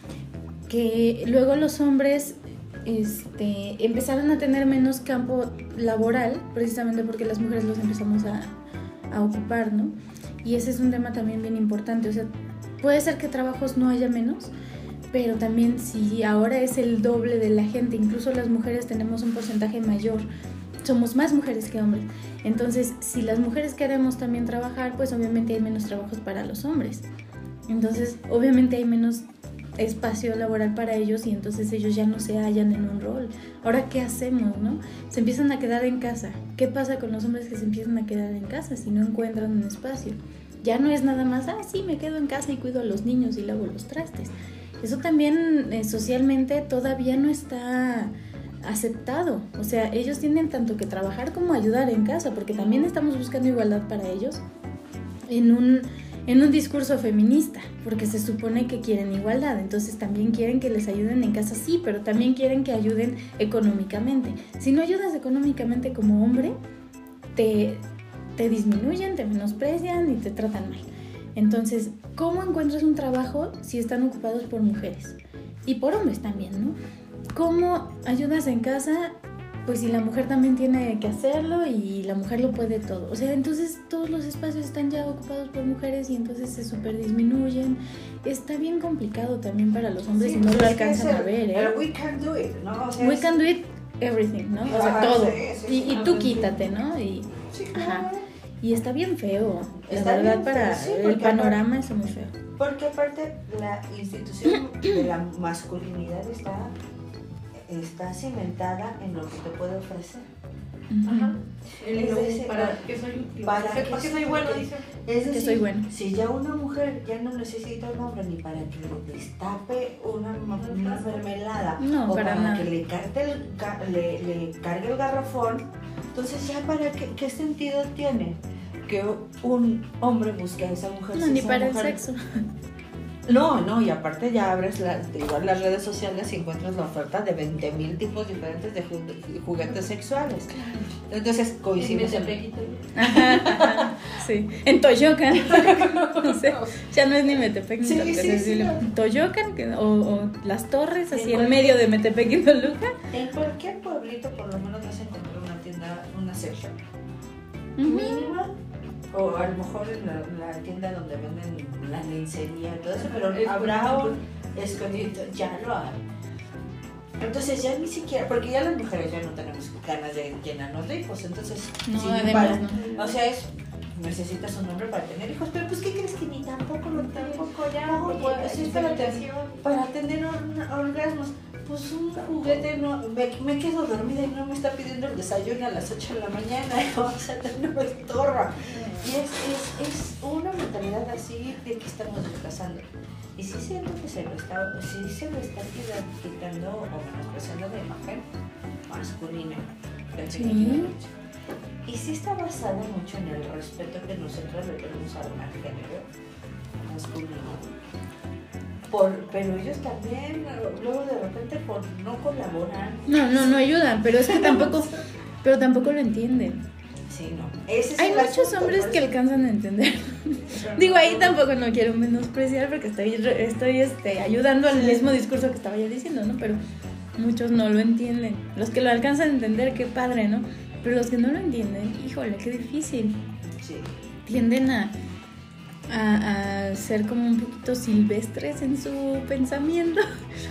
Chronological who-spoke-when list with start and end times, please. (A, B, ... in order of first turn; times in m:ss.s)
0:00.7-0:08.5 A
0:09.1-0:12.3 A
0:12.8-0:14.5 A
0:15.1-0:20.3 A
0:20.8-0:27.0 A
0:27.7-0:29.2 A
0:29.8-0:54.4 A
0:55.3-1:06.6 A
1:07.3-1:07.8 A
1:08.4-1:16.8 A
1:17.3-1:19.1 A
1:19.6-1:31.8 A
1:30.1-1:33.4 B
1:33.0-1:38.0 A
1:34.6-1:36.5 B
1:37.5-1:38.2 B
1:38.6-1:42.3 A
1:39.8-1:41.6 B
1:42.6-1:46.7 B
1:47.6-1:50.3 B
1:50.9-1:51.3 A
1:51.0-1:54.9 C
1:51.8-1:52.8 B
1:53.4-2:12.0 B
1:55.2-1:55.9 A
2:00.6-2:01.2 C
2:01.8-2:02.7 A
2:11.1-2:12.4 A
2:13.2-2:22.4 B
2:21.8-2:22.9 C
2:22.9-2:33.0 A
2:23.0-2:24.0 B
2:25.5-2:26.8 C
2:27.8-2:28.9 B
2:31.1-2:31.8 C
2:33.1-2:36.8 B
2:37.8-2:38.4 A
2:37.8-2:38.5 B
2:39.1-2:46.0 B
2:43.0-2:44.2 C
2:47.2-3:18.2 B
2:51.9-2:53.1 A
2:57.0-2:59.6 C
2:58.2-2:58.9 A
3:18.9-3:21.1 B
3:20.3-3:20.9 A
3:21.8-3:26.0 B
3:26.8-3:27.7 B
3:28.9-3:33.6 B
3:33.1-3:36.6 A
3:34.3-3:34.8 B
3:37.1-3:39.1 B
3:38.0-3:46.6 A
3:40.5-3:41.4 C
3:44.7-3:45.1 B
3:47.2-3:53.2 A
3:53.6-3:53.9 B
3:54.2-3:54.9 A
3:55.9-4:00.1 A